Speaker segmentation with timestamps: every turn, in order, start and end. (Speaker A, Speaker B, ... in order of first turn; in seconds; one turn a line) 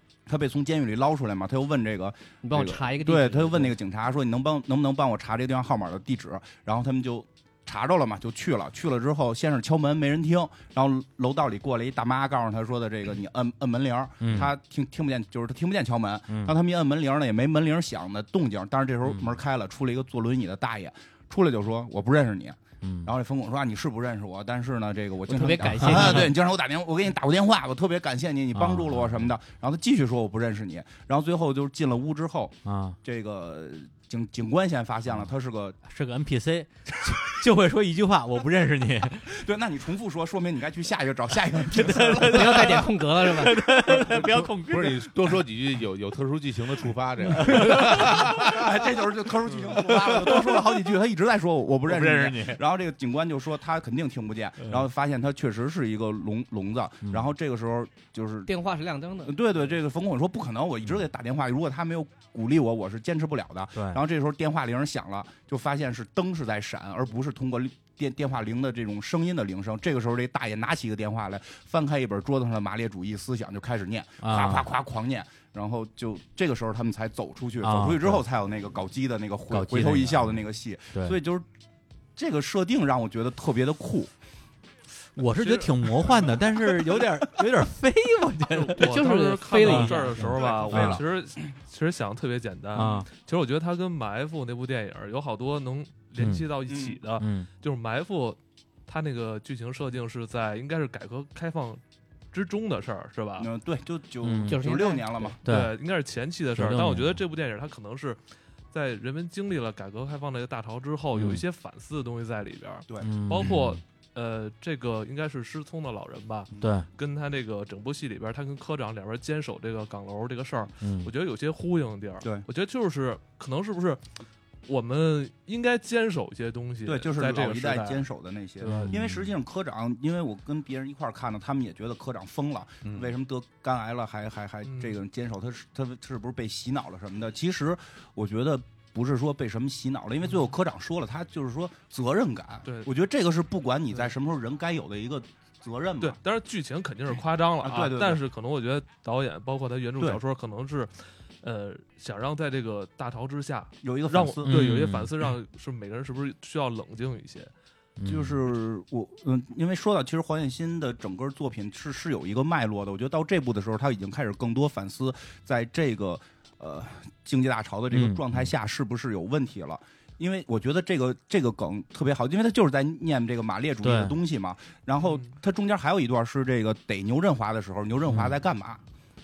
Speaker A: 0.3-35.8
Speaker B: 2.4-3.8
Speaker C: 14.2-14.5
Speaker C: 16.3-16.5
Speaker C: 19.0-19.4
Speaker C: 22.8-23.1
Speaker B: 25.3-26.3
Speaker C: 25.8-26.3
Speaker C: 28.5-29.3
Speaker C: 32.6-33.0
Speaker C: 35.8-39.4
Speaker A: 39.3-42.9
Speaker C: 41.7-45.0
Speaker B: 42.2-43.6
Speaker D: 43.9-48.7
Speaker C: 47.4-48.2
Speaker A: 47.5-58.5
Speaker C: 51.9-52.6
Speaker B: 58.5-59.4
Speaker A: 59.2-81.5
Speaker C: 63.7-64.0
Speaker C: 74.2-74.7
Speaker C: 77.6-78.2
Speaker C: 79.5-80.4
Speaker C: 80.9-81.2
Speaker A: 82.2-84.1
Speaker C: 85.2-88.9
Speaker E: 85.3-86.4
Speaker E: 88.5-101.8
Speaker B: 88.8-90.5
Speaker C: 89.6-91.0
Speaker A: 90.3-91.0
Speaker C: 92.7-93.1
Speaker C: 96.2-96.4
Speaker A: 96.7-97.0
Speaker C: 97.2-97.5
Speaker E: 102.3-103.5
Speaker A: 103.4-105.4
Speaker C: 104.2-104.6
Speaker B: 104.5-105.4
Speaker E: 105.4-108.2
Speaker C: 105.5-105.7
Speaker C: 106.5-107.2
Speaker E: 108.7-124.0
Speaker C: 111.1-111.4
Speaker C: 113.0-113.8
Speaker C: 116.6-116.9
Speaker C: 120.8-121.1
Speaker A: 122.2-122.5
Speaker E: 124.7-128.0
Speaker A: 126.8-146.2
Speaker E: 128.6-129.0
Speaker C: 128.7-129.0
Speaker D: 132.8-133.1
Speaker E: 134.6-135.0
Speaker E: 142.6-142.9
Speaker E: 146.0-157.5
Speaker A: 147.6-148.2
Speaker A: 153.8-154.6
Speaker C: 154.4-155.1
Speaker C: 158.0-158.4
Speaker A: 158.1-178.8
Speaker C: 167.9-168.2
Speaker C: 173.8-174.2
Speaker E: 175.0-175.3
Speaker C: 178.1-178.4